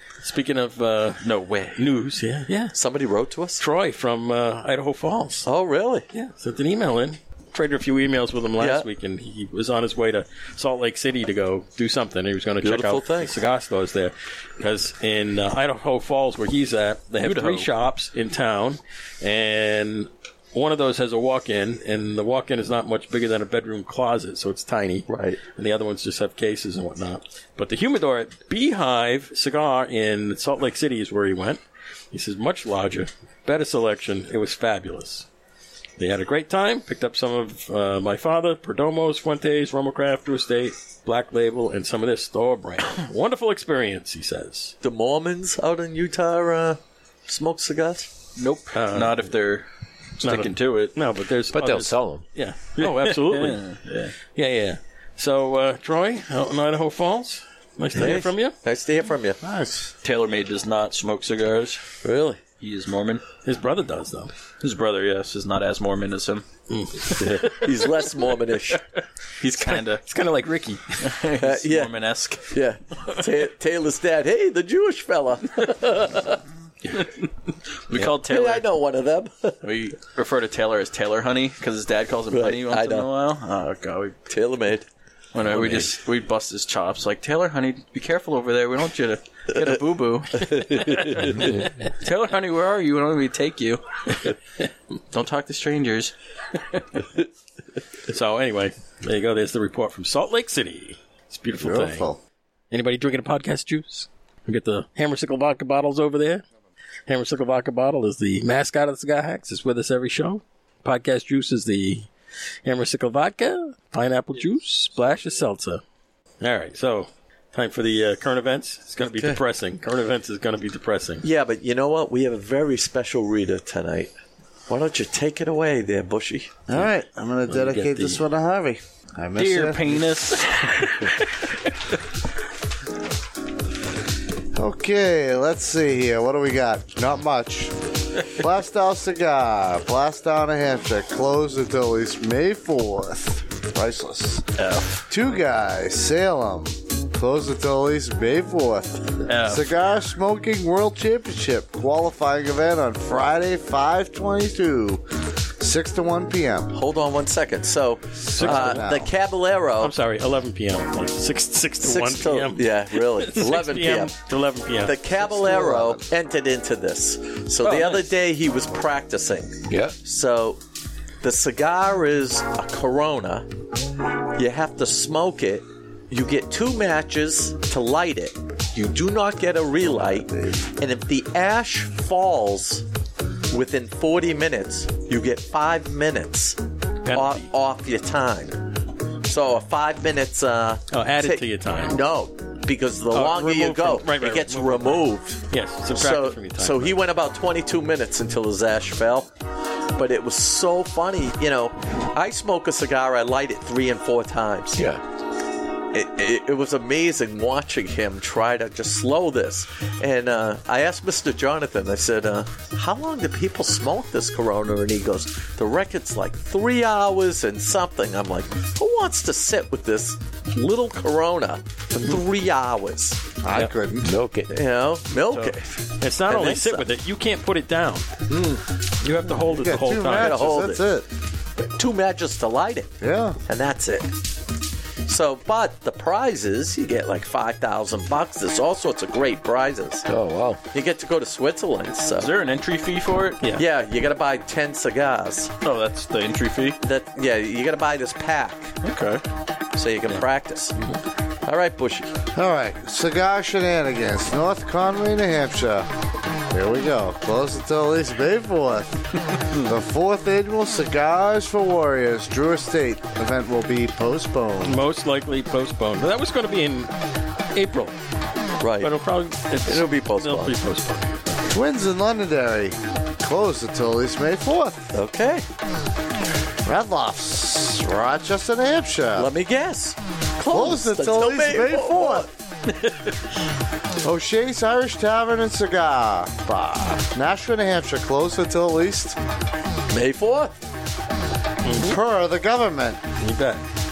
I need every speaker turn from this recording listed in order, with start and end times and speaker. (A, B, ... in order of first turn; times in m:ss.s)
0:00.2-0:01.2 A
0:01.2-0:01.9 B
0:01.8-0:02.8 A
0:02.7-0:03.6 C
0:03.6-0:05.5 A
0:05.4-0:06.0 C
0:06.1-0:35.3 A
0:08.6-0:08.9 C
0:12.6-0:13.4 C
0:17.2-0:17.7 B
0:25.1-0:25.4 C
0:36.0-0:44.7 A
0:44.8-0:48.1 C
0:48.4-0:49.7 B
0:48.7-0:49.3 A
0:50.2-0:51.0 B
0:50.2-0:53.6 A
0:51.5-0:52.2 D
0:52.8-0:54.1 B
0:54.3-0:58.5 A
0:57.9-0:59.4 C
0:59.4-0:59.9 E
1:00.0-1:01.8 B
1:02.0-1:02.4 C
1:02.6-1:03.2 B
1:03.4-1:04.3 A
1:04.6-1:06.4 B
1:06.7-1:07.6 A
1:07.3-1:08.8 C
1:09.4-1:10.0 B
1:09.7-1:11.2 A
1:11.0-1:12.5 B
1:11.4-1:16.4 C
1:16.9-1:17.2 B
1:17.9-1:18.6 B
1:17.9-1:19.6 C
1:19.6-1:24.2 B
1:22.3-1:23.1 C
1:24.3-1:24.9 C
1:25.3-1:34.3 B
1:25.4-1:25.9 D
1:30.4-1:31.2 C
1:35.1-1:36.1 B
1:38.1-1:42.1 A
1:41.6-1:42.2 E
1:42.7-1:46.4 A
1:47.1-1:52.1 A
1:52.6-1:55.8 A
1:56.4-2:01.2 A
1:59.0-1:59.4 C
2:01.2-2:04.1 C
2:04.7-2:06.6 C
2:06.7-2:10.0 E
2:07.5-2:08.2 A
2:09.4-2:11.5 B
2:14.5-2:24.4 E
2:24.6-2:25.0 B
2:25.1-2:35.0 E
2:29.2-2:29.7 B
2:35.6-2:36.8 E
2:36.7-2:39.9 C
2:38.3-2:39.1 E
2:38.3-2:38.8 A
2:39.8-2:45.0 A
2:41.8-2:44.1 C
2:44.8-2:50.6 C
2:45.2-2:46.0 E
2:47.6-2:48.0 B
2:49.7-2:50.0 D
2:51.2-2:53.5 C
2:54.3-3:02.8 C
3:00.1-3:00.5 E
3:03.5-3:08.7 C
3:07.0-3:07.5 A
3:09.2-3:19.3 C
3:10.9-3:12.0 A
3:13.1-3:17.0 A
3:20.0-3:24.8 C
3:24.7-3:25.0 D
3:25.9-3:43.3 C
3:43.4-3:44.1 E
3:44.0-3:44.5 D
3:44.5-3:46.8 C
3:45.2-3:45.5 B
3:46.0-3:48.1 A
3:48.3-3:48.6 C
3:49.0-3:50.4 A
3:49.4-3:51.0 E
3:50.1-3:50.8 C
3:51.6-3:52.9 C
3:53.0-3:53.4 E
3:53.5-3:54.2 C
3:55.0-4:00.1 C
4:00.1-4:00.6 D
4:00.7-4:02.3 C
4:02.2-4:03.4 B
4:03.5-4:05.5 C
4:05.6-4:06.8 B
4:06.8-4:08.7 C
4:08.8-4:09.2 B
4:09.7-4:10.7 C
4:11.4-4:12.1 C
4:12.3-4:15.9 E
4:16.5-4:24.8 E
4:24.6-4:26.9 A
4:27.5-4:28.0 A
4:28.6-4:29.0 C
4:28.8-4:31.2 A
4:29.6-4:30.6 C
4:31.5-4:34.9 E
4:34.9-4:35.4 C
4:36.6-4:39.3 E
4:39.2-4:42.3 C
4:40.5-4:42.3 E
4:44.0-4:49.2 E
4:49.9-4:50.5 C
4:51.6-4:52.0 A
4:51.8-4:53.0 E
4:53.2-4:53.6 A